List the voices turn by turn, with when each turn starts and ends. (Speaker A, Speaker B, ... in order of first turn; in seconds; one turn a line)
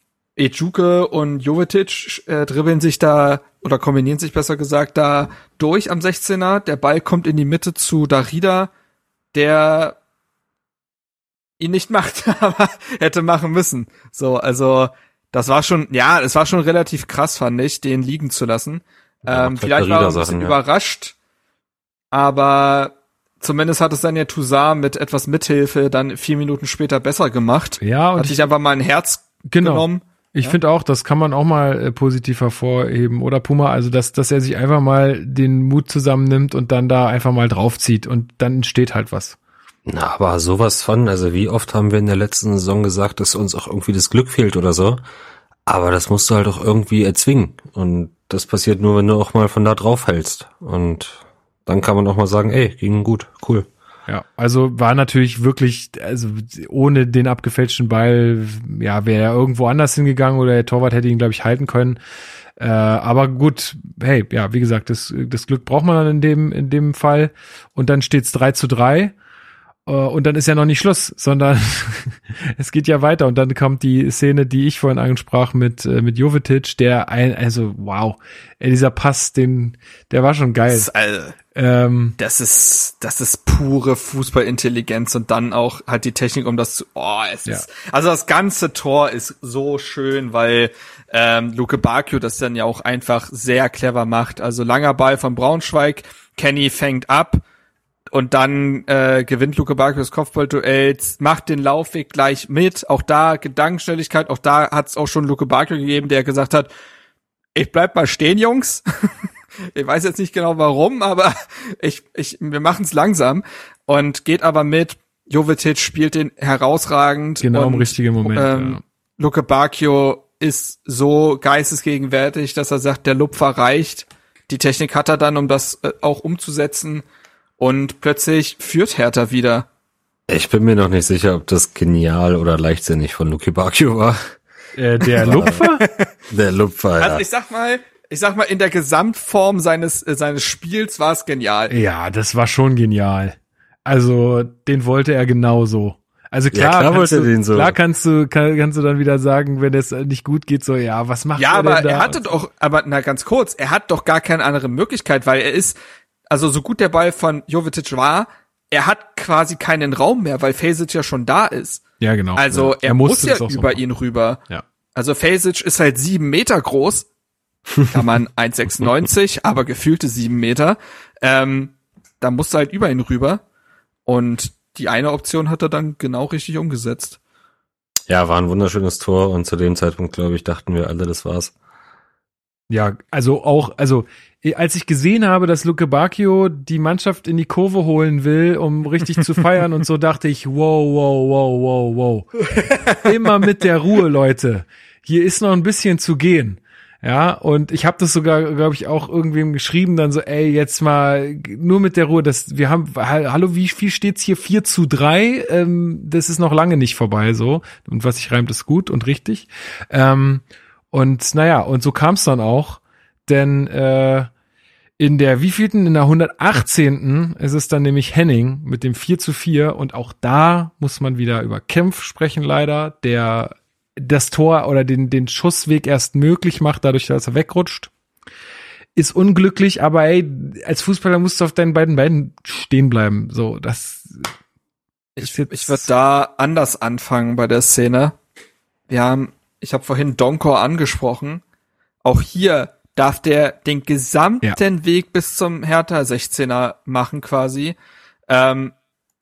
Speaker A: 0.4-8.7
Speaker A: 9.3-9.9
Speaker A: 11.6-21.1
Speaker B: 19.2-20.6
Speaker A: 22.1-30.6
Speaker C: 27.8-28.4
Speaker C: 29.5-39.4
Speaker B: 39.9-45.0
Speaker B: 45.6-53.7
Speaker C: 54.1-62.0
Speaker C: 62.6-69.1
Speaker C: 69.8-80.9
Speaker A: 80.7-81.3
Speaker C: 81.5-82.2
Speaker A: 82.2-97.4
Speaker A: 98.1-106.7
Speaker A: 107.5-108.8
Speaker A: 109.7-127.0
Speaker C: 117.4-118.8
Speaker A: 127.6-129.7
Speaker B: 130.3-134.3
Speaker C: 134.8-135.8
Speaker B: 135.2-135.6
Speaker A: 135.3-136.1
Speaker B: 136.3-137.2
Speaker A: 137.0-141.7
Speaker C: 141.7-152.2
Speaker B: 146.5-147.8
Speaker A: 151.3-155.8
Speaker A: 156.3-161.8
Speaker C: 162.0-163.8
Speaker A: 162.3-164.4
Speaker A: 164.9-167.1
Speaker A: 167.8-173.4
Speaker A: 174.1-177.2
Speaker B: 178.1-181.5
Speaker C: 182.7-192.4
Speaker C: 192.9-214.3
Speaker C: 215.0-227.9
Speaker C: 228.9-234.3
Speaker A: 235.2-238.1
Speaker C: 235.2-235.9
Speaker A: 238.9-241.4
Speaker A: 242.0-247.8
Speaker A: 248.3-248.7